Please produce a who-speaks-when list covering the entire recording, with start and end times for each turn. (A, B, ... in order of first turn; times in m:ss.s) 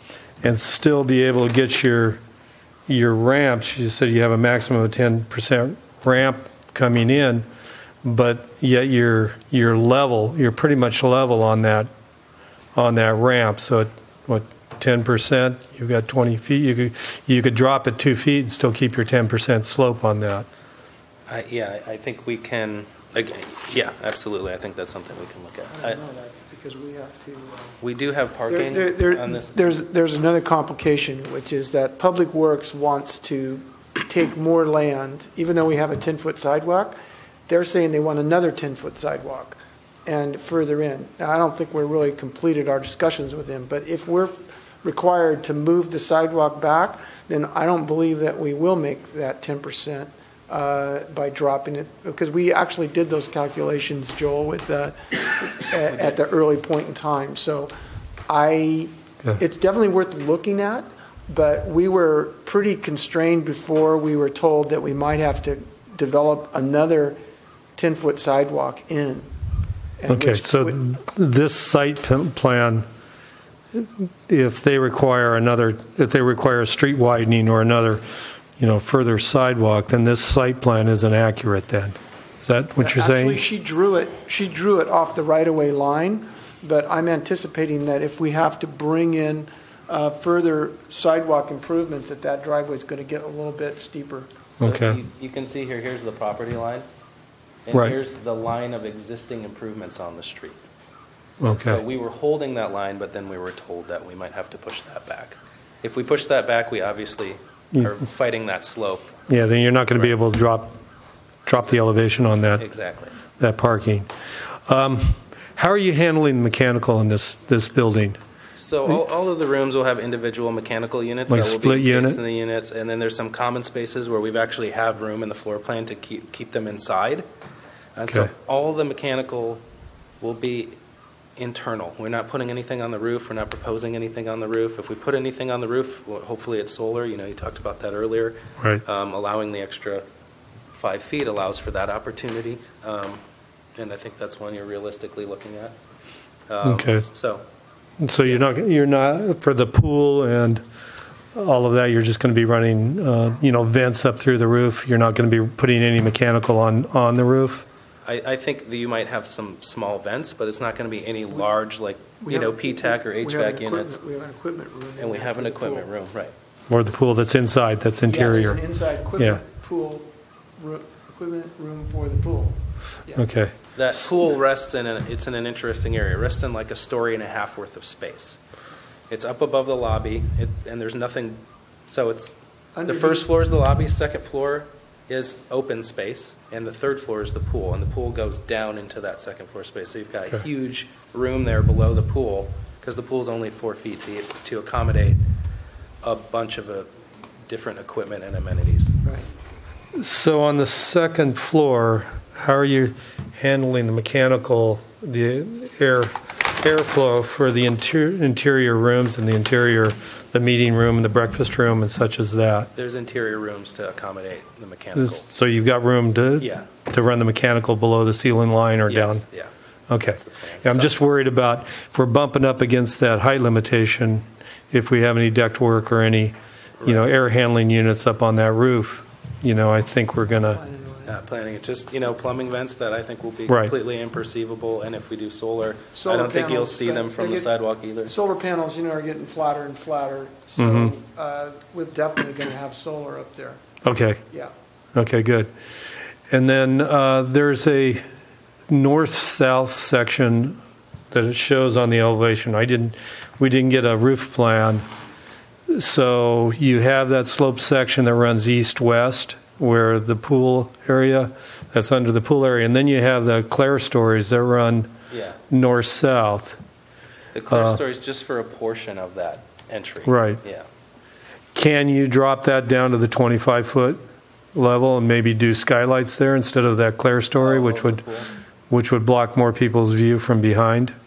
0:00.4-0:02.2 A
0:02.9-0:07.4 A
0:08.0-0:11.9 A
0:12.7-0:20.4 A
0:21.3-0:26.0 B
0:25.7-0:27.8 C
0:27.8-0:29.5 B
0:28.5-0:36.9 C
0:37.5-0:57.7 C
0:58.3-1:07.2 C
1:07.8-1:09.3 C
1:10.0-1:10.8 C
1:10.1-1:12.8 A
1:13.7-1:18.0 A
1:18.6-1:23.4 A
1:22.8-1:34.3 C
1:34.6-1:35.0 A
1:34.6-1:36.8 B
1:37.6-1:40.6 B
1:37.7-1:38.0 A
1:41.4-1:41.8 A
1:41.4-1:49.2 B
1:49.3-1:50.8 A
1:49.9-1:50.1 B
1:51.4-1:52.6 A
1:51.6-1:53.2 B
1:53.4-1:54.1 A
1:54.7-1:58.2 A
1:58.5-2:07.2 B
2:01.3-2:02.2 A
2:08.0-2:09.6 B
2:10.2-2:10.8 B
2:11.4-2:20.0 B
2:20.7-2:23.2 B
2:23.8-2:25.7 B
2:26.5-2:27.4 B
2:26.6-2:27.1 A
2:28.0-2:30.6 A
2:31.3-2:37.6 A
2:38.0-2:44.0 B
2:42.2-2:45.9 C
2:45.0-2:46.3 B
2:46.7-2:48.6 A
2:48.0-2:53.2 C
2:53.2-2:53.5 A
2:53.7-2:58.4 B
2:59.1-3:15.2 B
3:02.7-3:03.3 C
3:16.0-3:16.9 B
3:17.5-3:19.0 B
3:20.0-3:32.7 A
3:32.8-3:35.2 B
3:34.9-3:39.2 A
3:36.4-3:36.6 B
3:38.9-3:39.5 B
3:39.9-3:50.6 A
3:40.2-3:40.9 B
3:46.8-3:47.1 B
3:50.5-3:51.2 C
3:51.0-3:58.1 B
3:53.5-3:53.7 A
3:55.9-3:57.5 C
3:58.0-4:03.6 C
4:00.6-4:00.9 A
4:03.8-4:04.2 A
4:04.9-4:05.5 A
4:06.3-4:08.0 A
4:08.7-4:10.6 A
4:11.1-4:14.8 A
4:15.7-4:24.9 A
4:25.1-4:25.4 B
4:25.5-4:26.6 A
4:27.3-4:30.6 B
4:27.5-4:27.8 A
4:30.0-4:30.4 A
4:31.5-4:34.0 A
4:34.5-4:38.0 A
4:37.4-4:38.3 B
4:38.7-4:40.9 A